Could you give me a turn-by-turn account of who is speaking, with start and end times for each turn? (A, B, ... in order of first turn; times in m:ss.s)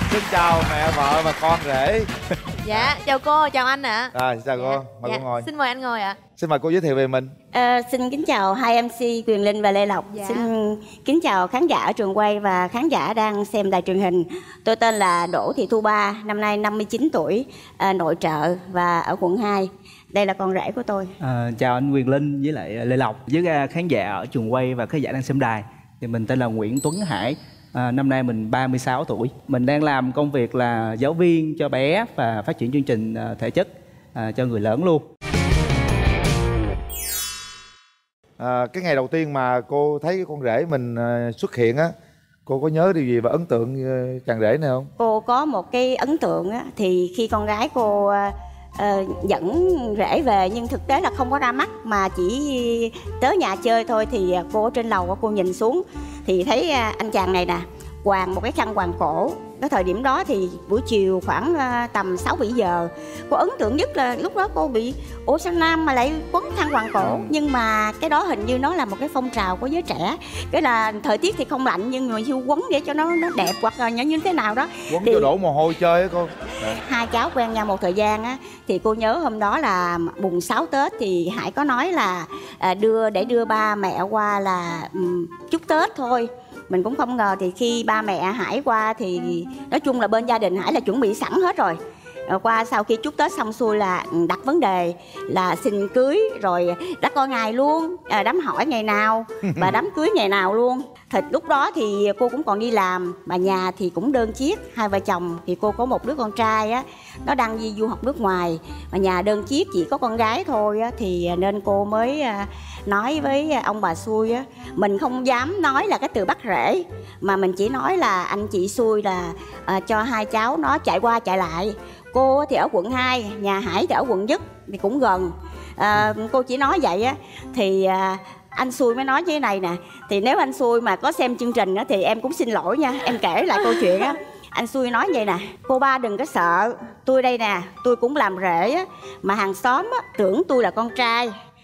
0:00.1-0:02.1 A
0:02.6-0:06.2 B
0:02.7-0:03.0 A
0:04.2-0:05.5 A
0:06.4-0:07.3 A
0:07.5-0:21.1 C
0:10.1-0:10.5 B
0:21.2-0:35.1 D
0:38.4-0:41.9 A
0:42.5-0:44.9 A
0:45.0-1:15.3 C
1:07.0-1:07.3 A
1:14.9-1:16.8 A
1:16.7-1:31.8 C
1:32.3-2:21.3 C